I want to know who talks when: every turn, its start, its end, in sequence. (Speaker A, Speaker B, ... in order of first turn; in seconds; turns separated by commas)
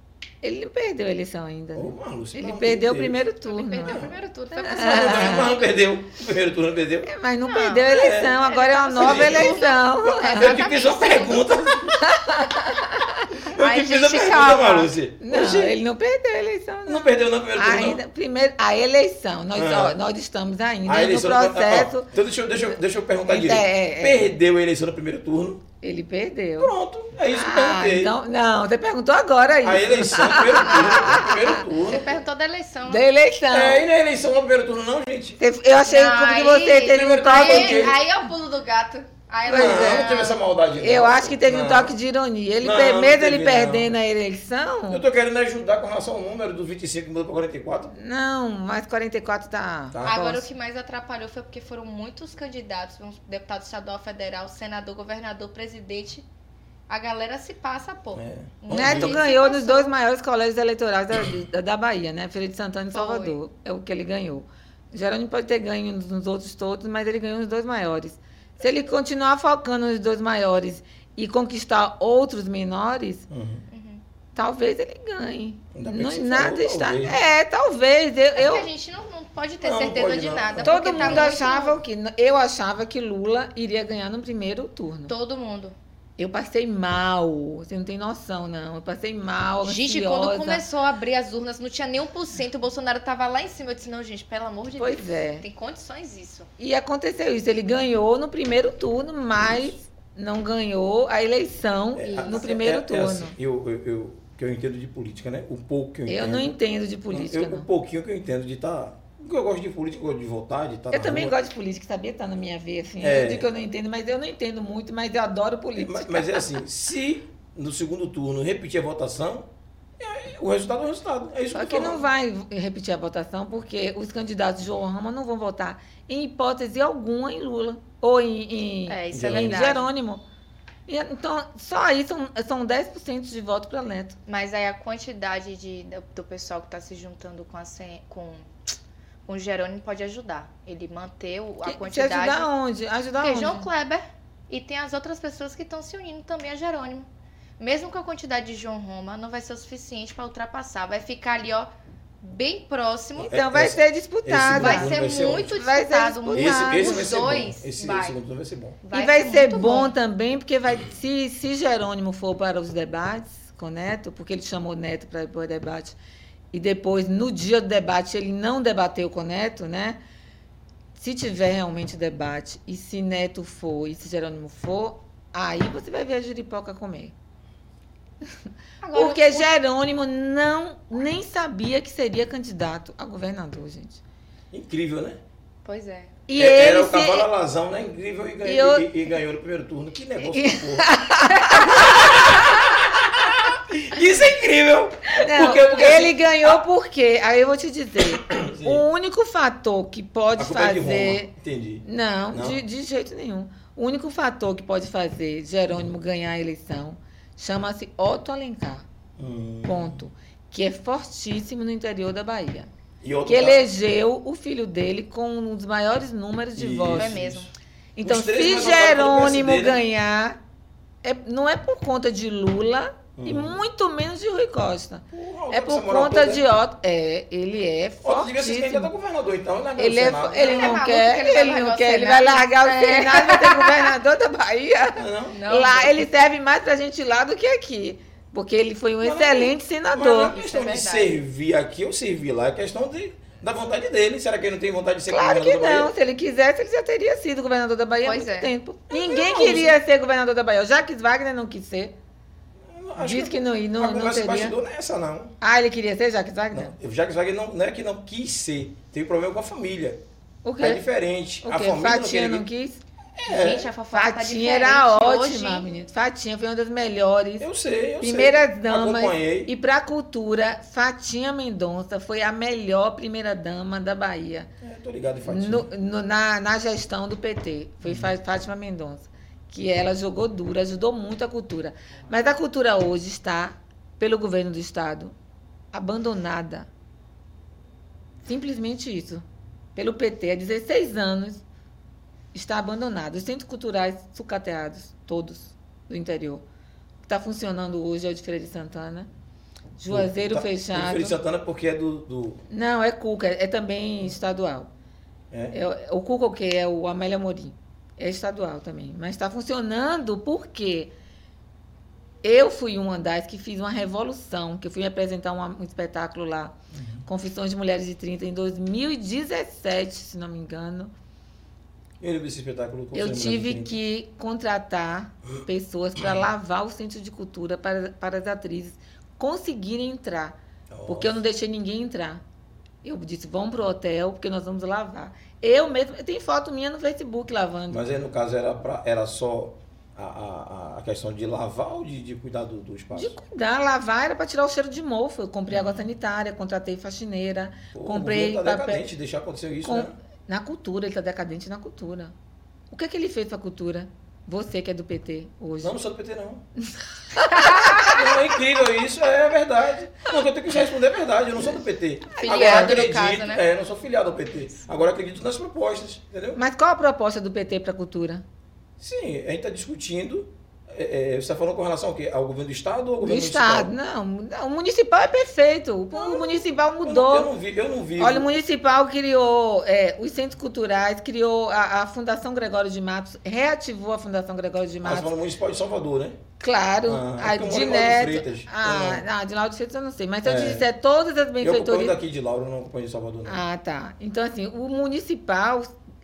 Speaker A: 0.4-4.0, Speaker B: 1.7-3.2, Speaker C: 3.4-5.6, Speaker B: 3.8-4.1, Speaker A: 4.5-5.5, Speaker B: 4.6-7.1, Speaker A: 7.0-10.6, Speaker C: 7.5-11.7, Speaker B: 7.9-8.4, Speaker B: 8.9-9.6, Speaker B: 10.2-12.0, Speaker A: 11.9-13.3, Speaker B: 13.4-15.8, Speaker C: 13.4-14.9, Speaker A: 15.2-22.1, Speaker B: 16.9-18.0, Speaker B: 19.5-20.0, Speaker B: 20.8-25.6, Speaker A: 23.2-24.3, Speaker A: 25.8-26.7, Speaker B: 26.6-28.1, Speaker A: 27.3-31.6, Speaker B: 29.6-32.2, Speaker C: 30.4-31.2, Speaker C: 31.8-33.0, Speaker A: 32.9-33.9, Speaker B: 33.5-35.4, Speaker A: 35.4-38.0, Speaker C: 35.9-40.4, Speaker B: 36.9-38.0, Speaker A: 39.5-40.1, Speaker B: 39.5-41.9, Speaker A: 40.8-45.0, Speaker B: 42.6-43.9, Speaker B: 44.9-47.9, Speaker A: 47.9-50.2, Speaker B: 49.9-50.4, Speaker C: 50.0-56.2, Speaker C: 56.9-59.9, Speaker B: 58.1-59.2, Speaker A: 58.7-73.3, Speaker C: 62.9-63.4, Speaker B: 73.3-73.6, Speaker C: 73.7-74.0, Speaker A: 74.3-78.7, Speaker B: 75.7-77.2, Speaker C: 78.3-81.8, Speaker B: 79.6-81.3, Speaker A: 80.6-85.1, Speaker C: 85.1-85.8, Speaker A: 86.2-90.6, Speaker C: 89.6-96.5, Speaker A: 94.8-95.5, Speaker A: 96.6-103.3, Speaker B: 101.9-106.5, Speaker C: 102.0-102.5, Speaker A: 106.1-107.7, Speaker B: 107.1-111.3, Speaker A: 110.9-116.6, Speaker B: 113.0-113.5, Speaker B: 115.8-119.5, Speaker B: 120.0-122.0, Speaker A: 121.5-130.2, Speaker C: 128.9-129.9, Speaker B: 129.1-129.7, Speaker A: 130.9-134.2, Speaker C: 134.3-138.5, Speaker C: 139.2-142.5, Speaker A: 141.6-143.7, Speaker C: 143.2-151.7, Speaker C: 152.2-153.3, Speaker B: 153.2-155.6, Speaker A: 153.2-157.1, Speaker C: 154.5-158.2, Speaker B: 156.3-158.8, Speaker C: 158.8-159.9, Speaker A: 158.9-165.9, Speaker A: 166.5-170.0, Speaker A: 170.9-177.1, Speaker C: 178.8-179.5, Speaker A: 178.9-184.0, Speaker B: 184.5-185.2, Speaker C: 185.6-186.2, Speaker A: 186.3-187.3, Speaker B: 186.3-190.9, Speaker A: 188.4-188.9, Speaker A: 190.2-191.9, Speaker B: 191.7-196.6, Speaker A: 195.1-201.3, Speaker B: 198.1-198.9, Speaker B: 200.4-202.6, Speaker A: 201.8-208.8, Speaker B: 209.2-210.0, Speaker A: 209.6-212.7, Speaker B: 213.0-213.6, Speaker A: 213.3-217.1, Speaker B: 216.6-217.5, Speaker C: 216.9-217.5, Speaker A: 217.9-220.4, Speaker B: 218.0-219.8, Speaker A: 221.0-228.9, Speaker B: 223.2-223.6, Speaker B: 225.1-226.4, Speaker B: 228.0-230.8, Speaker A: 229.8-240.3, Speaker C: 230.4-233.9, Speaker B: 235.0-235.4, Speaker C: 235.3-236.0, Speaker B: 239.0-245.9, Speaker C: 240.2-241.1, Speaker A: 245.1-251.9, Speaker C: 248.0-248.5, Speaker B: 248.9-249.8, Speaker B: 252.7-255.3, Speaker A: 252.9-254.6, Speaker A: 255.4-256.7, Speaker B: 256.5-260.0, Speaker A: 260.4-260.9, Speaker B: 260.6-262.4, Speaker A: 261.4-262.8, Speaker B: 263.1-263.7, Speaker C: 263.3-265.7, Speaker A: 263.9-267.5, Speaker B: 267.4-269.5, Speaker A: 268.0-274.5, Speaker B: 274.6-275.7, Speaker A: 275.2-285.1, Speaker A: 285.7-286.7, Speaker A: 288.2-289.2, Speaker A: 289.8-291.4, Speaker A: 292.3-296.4, Speaker A: 297.0-299.1, Speaker A: 299.8-301.2, Speaker B: 299.9-302.4, Speaker A: 302.5-304.7, Speaker B: 305.3-305.6, Speaker A: 305.5-310.9, Speaker A: 312.2-320.9, Speaker B: 316.7-317.0, Speaker B: 322.0-323.7, Speaker A: 322.9-332.2, Speaker B: 330.7-331.2, Speaker A: 332.8-337.8, Speaker B: 337.7-343.1, Speaker A: 342.9-348.8, Speaker B: 345.5-345.8, Speaker B: 347.7-349.9, Speaker A: 349.6-352.1, Speaker A: 352.7-355.8, Speaker B: 355.6-356.4, Speaker A: 357.1-357.9, Speaker B: 357.8-366.4, Speaker A: 362.1-362.9, Speaker C: 362.2-363.4, Speaker A: 366.3-368.2, Speaker B: 368.8-373.7, Speaker A: 373.0-377.3, Speaker B: 375.9-378.3, Speaker A: 378.0-385.1, Speaker B: 384.8-386.2, Speaker A: 386.4-392.0, Speaker B: 386.9-389.1, Speaker B: 390.2-390.7, Speaker B: 391.4-393.4, Speaker A: 393.2-395.7